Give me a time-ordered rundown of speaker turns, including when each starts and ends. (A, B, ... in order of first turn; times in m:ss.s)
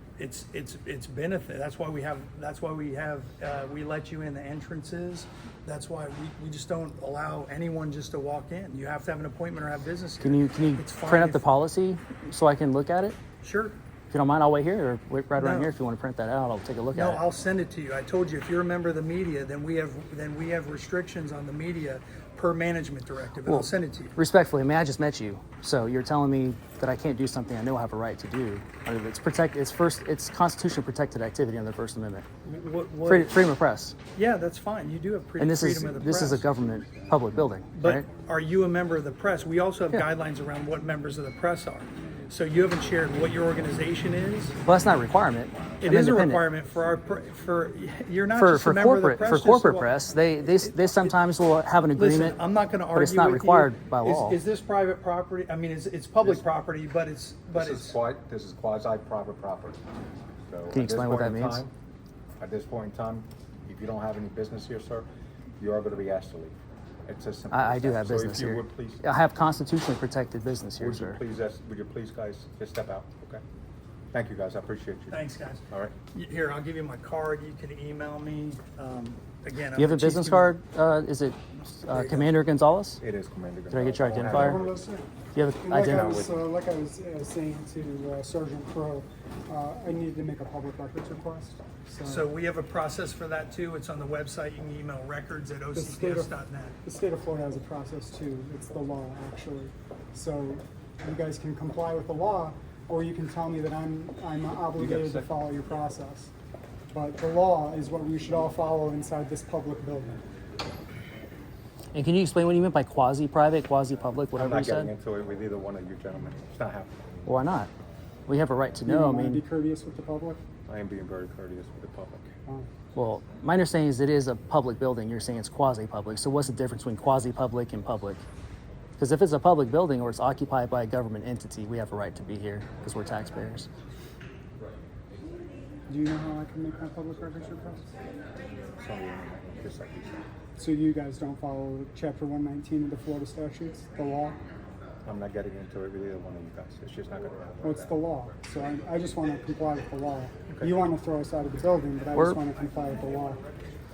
0:00.2-0:11.4 A
0:10.2-0:13.2 B
0:13.4-0:13.8 A
0:14.1-0:17.2 B
0:15.4-0:15.7 A
0:16.9-0:24.1 A
0:23.4-0:32.2 B
0:32.4-0:33.4 A
0:33.0-0:33.9 B
0:34.1-0:36.5 A
0:35.4-0:38.0 B
0:37.3-0:37.9 C
0:37.7-0:44.6 A
0:44.6-0:46.5 B
0:45.8-0:49.9 A
0:48.4-0:52.4 B
0:50.6-0:51.1 A
0:51.9-0:58.0 A
0:52.9-0:54.4 B
0:57.5-0:59.8 C
1:00.4-1:01.7 C
1:00.7-1:01.6 B
1:02.4-1:05.1 C
1:05.6-1:06.5 C
1:07.0-1:09.0 C
1:07.5-1:11.2 B
1:10.8-1:13.4 C
1:14.1-1:15.9 C
1:15.1-1:20.5 A
1:19.8-1:23.0 B
1:21.9-1:22.3 A
1:23.0-1:24.8 C
1:23.7-1:24.6 B
1:24.2-1:25.1 D
1:25.3-1:26.2 B
1:25.6-1:32.3 D
1:25.8-1:26.2 C
1:32.0-1:36.7 A
1:35.7-1:36.3 D
1:36.8-1:46.3 D
1:44.8-1:45.3 C
1:46.9-1:50.2 D
1:51.9-1:54.9 B
1:54.3-1:57.4 C
1:57.2-1:57.7 B
1:58.3-1:59.4 B
1:58.8-2:00.4 D
2:00.7-2:02.3 C
2:02.9-2:08.2 B
2:09.0-2:13.7 B
2:15.9-2:17.9 D
2:18.7-2:20.2 C
2:20.6-2:24.4 D
2:25.0-2:28.0 C
2:27.6-2:33.4 D
2:32.1-2:32.4 B